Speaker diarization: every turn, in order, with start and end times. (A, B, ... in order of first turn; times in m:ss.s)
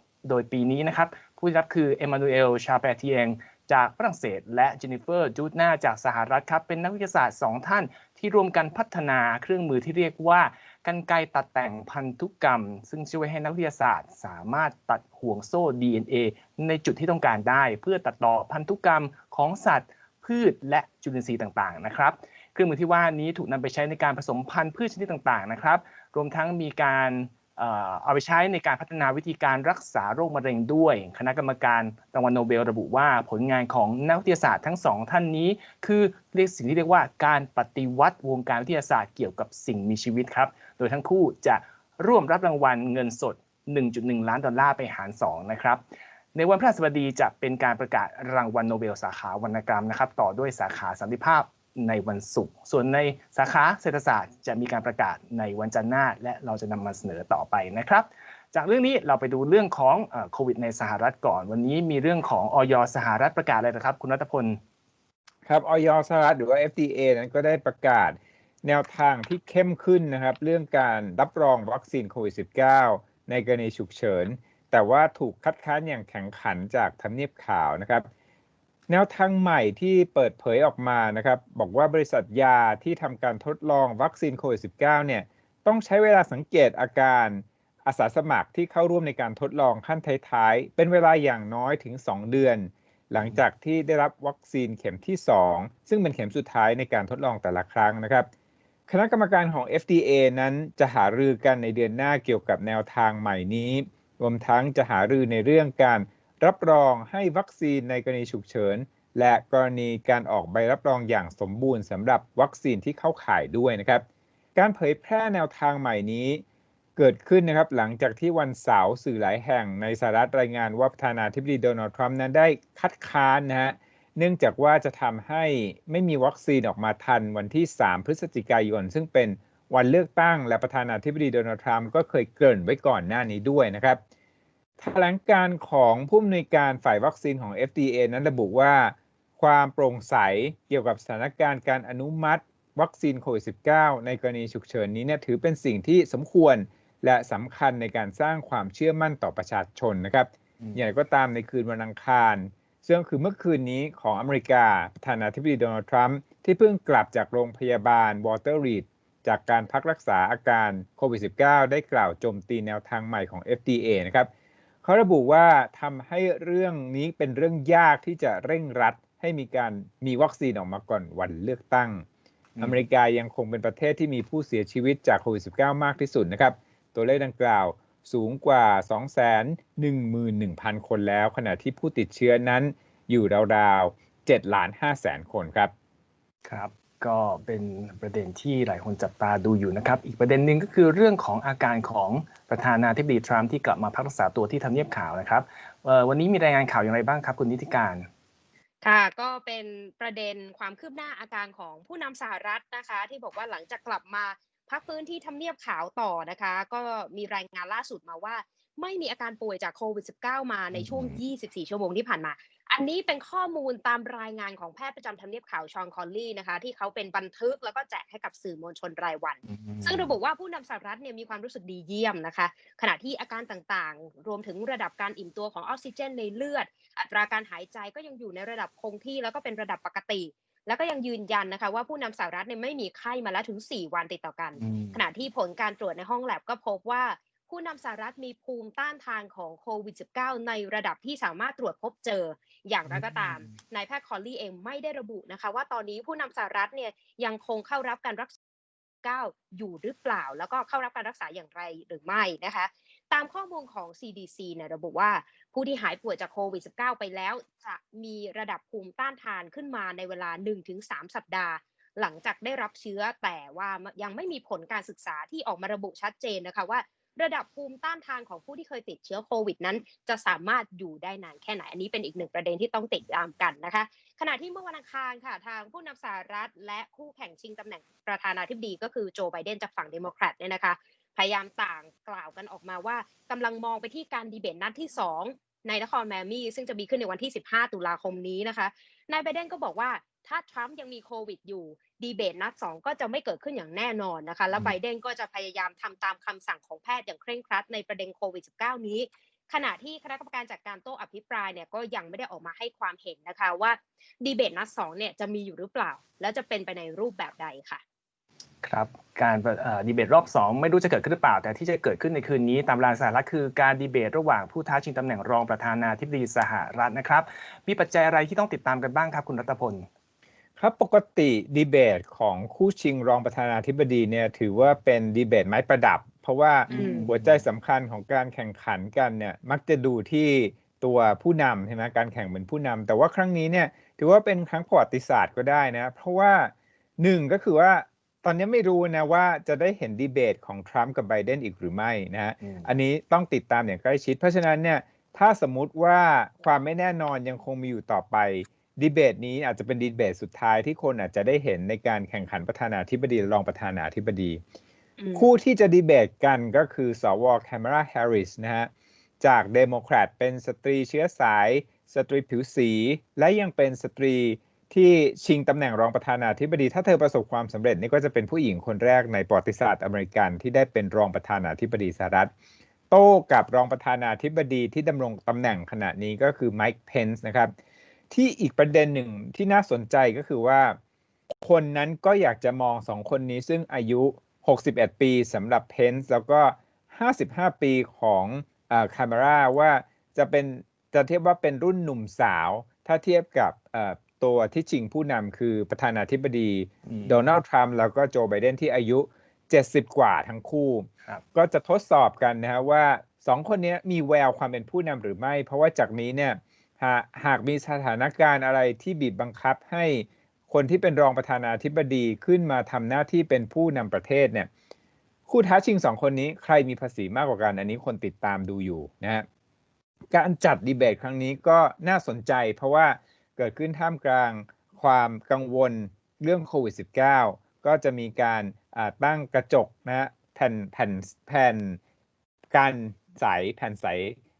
0:00.2-0:45.8 A
0:46.3-1:04.6 A
1:05.4-1:18.1 B
1:18.9-1:38.3 B
1:38.9-1:54.0 B
1:54.5-1:56.4 B
1:57.0-2:14.0 B
2:14.8-2:44.3 B
2:44.8-2:52.0 B
2:52.6-2:52.8 A
2:52.6-3:05.7 B
3:06.4-3:18.1 A
3:18.8-4:08.3 C
3:30.7-3:31.2 A
3:39.5-3:40.1 A
3:54.6-3:55.0 A
4:02.9-4:03.5 A
4:09.0-5:07.8 C
5:08.6-5:19.9 A
5:20.6-5:54.4 B
5:26.7-5:27.4 A
5:26.7-5:27.0 C
5:42.4-5:42.7 A
5:55.0-5:55.3 C
5:55.1-5:58.7 B
5:59.2-6:12.3 B
6:12.9-6:17.5 B
6:18.1-6:20.8 B
6:21.4-6:54.5 B
6:36.8-6:37.2 A
6:55.3-6:59.2 B
7:00.1-7:11.8 B
7:12.5-7:14.2 B